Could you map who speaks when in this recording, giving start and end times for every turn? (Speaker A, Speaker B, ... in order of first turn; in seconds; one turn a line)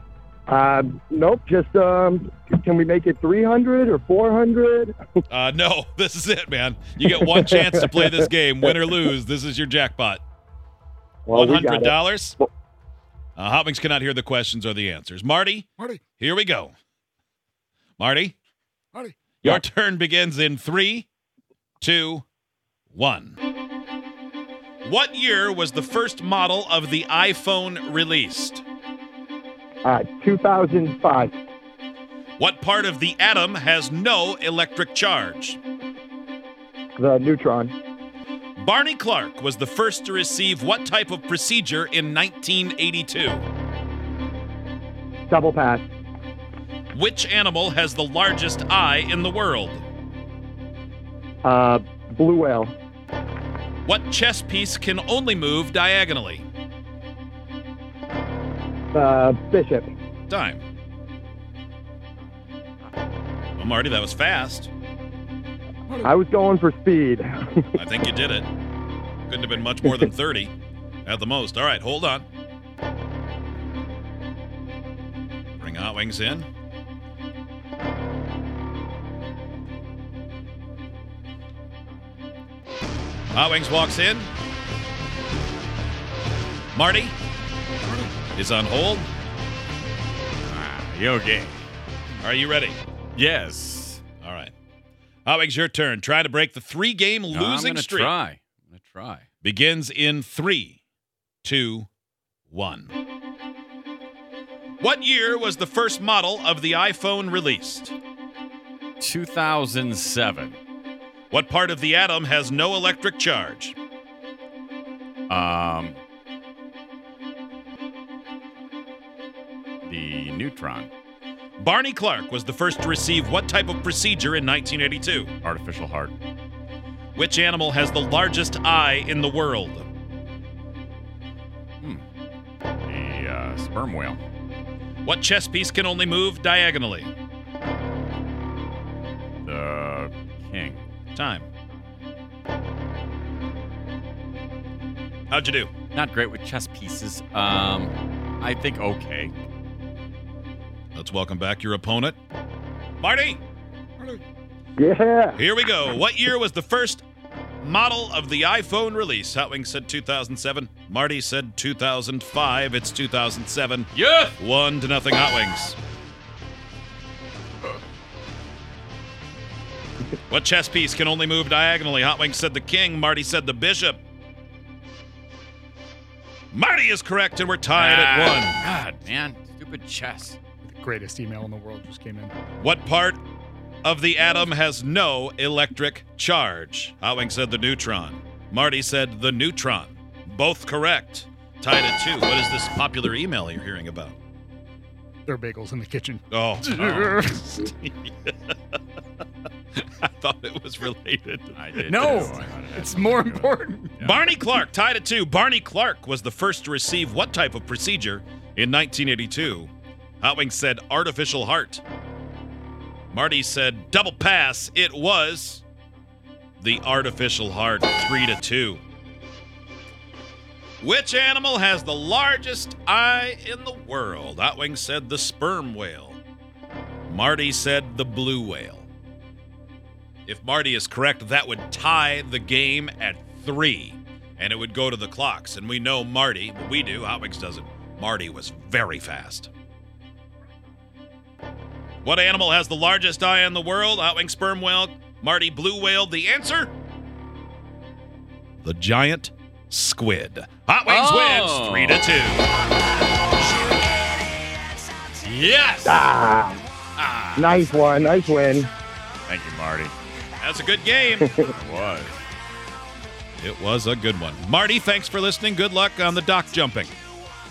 Speaker A: 0.5-5.0
Speaker B: 5.3-10.2
Speaker A: 7.0-8.1
Speaker A: 11.3-12.5
Speaker B: 11.3-12.4
Speaker B: 13.4-16.8
Speaker B: 18.0-18.4
Speaker B: 19.4-21.1
Speaker B: 21.8-22.3
Speaker B: 22.9-23.4
Speaker B: 24.8-28.6
Speaker A: 29.8-31.3
Speaker B: 32.4-35.6
Speaker A: 37.0-37.7
Speaker B: 38.6-43.5
Speaker A: 45.3-45.9
Speaker B: 46.9-49.8
Speaker A: 51.4-52.7
Speaker B: 53.9-56.5
Speaker A: 58.9-59.9
Speaker B: 60.3-60.6
Speaker B: 63.6-64.7
Speaker A: 66.0-67.7
Speaker B: 67.8-68.5
Speaker B: 69.3-70.5
Speaker B: 71.0-72.3
Speaker B: 75.6-76.5
Speaker B: 83.3-84.3
Speaker B: 86.8-87.2
Speaker B: 88.3-89.1
Speaker C: 90.4-91.7
Speaker B: 92.2-92.8
Speaker C: 93.2-94.0
Speaker B: 94.2-94.5
Speaker B: 95.3-98.2
Speaker C: 97.3-99.3
Speaker B: 99.4-100.8
Speaker B: 101.4-101.9
Speaker B: 102.5-103.0
Speaker B: 104.8-108.0
Speaker C: 109.0-110.6
Speaker B: 111.3-113.8
Speaker C: 115.3-116.0
Speaker C: 119.8-120.9
Speaker B: 121.6-125.3
Speaker C: 125.4-126.1
Speaker B: 127.2-129.9
Speaker C: 132.9-134.2
Speaker B: 135.1-137.1
Speaker C: 139.5-140.9
Speaker B: 141.1-141.5
Speaker B: 145.3-145.7
Speaker C: 145.9-149.3
Speaker B: 150.9-152.2
Speaker B: 153.0-153.4
Speaker A: 154.8-155.4
Speaker B: 155.4-157.0
Speaker B: 157.6-165.8
Speaker C: 163.9-164.3
Speaker B: 170.3-174.0
Speaker B: 176.5-178.6
Speaker C: 177.8-180.4
Speaker D: 180.6-182.3
Speaker B: 182.6-183.2
Speaker B: 183.8-194.2
Speaker D: 195.3-197.5
Speaker B: 196.3-198.3
Speaker B: 199.8-201.7
Speaker C: 201.5-204.3
Speaker D: 201.9-204.0
Speaker B: 204.1-211.8
Speaker B: 213.1-215.6
Speaker B: 216.6-218.8
Speaker B: 220.8-226.2
Speaker B: 227.1-228.9
Speaker B: 230.3-239.5
Speaker B: 242.0-246.7
Speaker B: 248.6-252.4
Speaker C: 250.9-252.1
Speaker C: 255.2-256.1
Speaker A: 255.8-256.6
Speaker C: 257.0-257.6
Speaker A: 257.4-258.7
Speaker C: 259.3-259.9
Speaker B: 260.4-261.3
Speaker A: 261.2-261.5
Speaker C: 261.4-262.2
Speaker B: 263.4-266.9